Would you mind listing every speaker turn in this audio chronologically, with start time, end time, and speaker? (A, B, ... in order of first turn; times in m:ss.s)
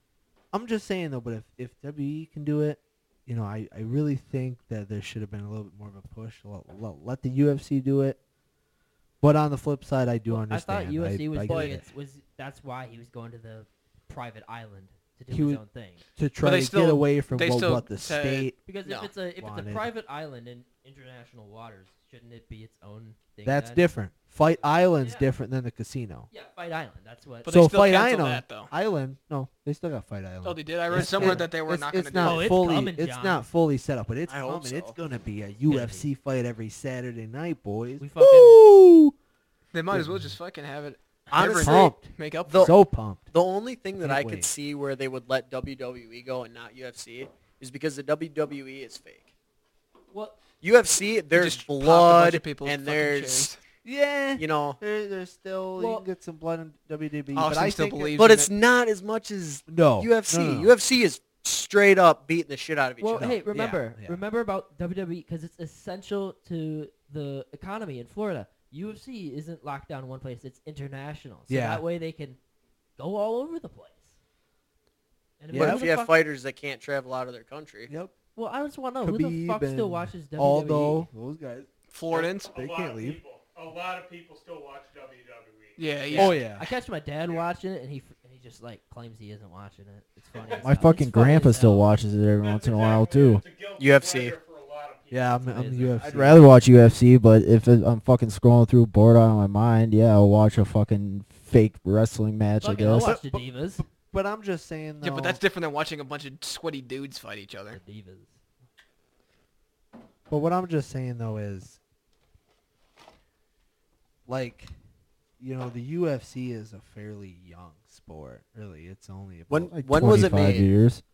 0:00.5-0:08.2 A
0:09.2-0:11.8 A
0:10.3-0:16.0 B
0:15.3-0:15.6 A
0:16.2-0:18.6 A
0:16.4-0:19.0 C
0:18.7-0:23.9 B
0:19.4-0:19.9 A
0:23.4-0:26.3 A
0:24.9-0:25.3 B
0:26.3-0:27.5 B
0:27.4-0:28.7 C
0:27.5-0:39.1 A
0:30.4-0:32.5 C
0:30.9-0:31.4 B
0:32.2-0:33.4 B
0:34.3-0:35.0 D
0:35.7-0:36.1 B
0:38.0-0:38.6 B
0:39.7-0:42.7 C
0:39.9-0:40.3 A
0:41.3-0:42.8 D
0:41.4-0:43.3 A
0:43.3-0:49.3 D
0:44.0-0:44.5 A
0:50.1-0:50.4 B
0:50.6-0:53.5 D
0:51.3-0:53.6 C
0:53.8-0:58.2 A
0:54.4-0:54.8 D
0:55.8-0:56.1 B
0:57.3-0:58.5 C
0:58.2-1:03.4 D
0:59.7-1:00.7 A
1:03.0-1:12.4 B
1:03.2-1:04.2 A
1:11.5-1:11.8 A
1:13.0-1:14.1 B
1:15.4-1:16.1 B
1:15.5-1:15.9 A
1:15.5-1:17.9 D
1:17.9-1:18.1 A
1:18.4-1:21.1 B
1:19.0-1:21.7 A
1:21.9-1:22.5 C
1:22.1-1:25.8 E
1:22.5-1:23.2 A
1:25.8-1:26.4 C
1:26.1-1:26.7 A
1:26.1-1:31.9 B
1:30.3-1:30.8 E
1:30.6-1:33.4 F
1:32.4-1:35.7 E
1:33.8-1:34.4 D
1:35.1-1:36.4 A
1:35.4-1:36.2 B
1:36.1-1:43.1 F
1:42.6-1:43.8 B
1:43.0-1:45.4 A
1:45.0-1:47.8 C
1:47.7-1:48.4 B
1:50.3-1:51.8 A
1:54.3-1:54.7 A
1:55.4-2:00.6 A
1:59.5-2:00.7 D
1:59.9-2:01.0 F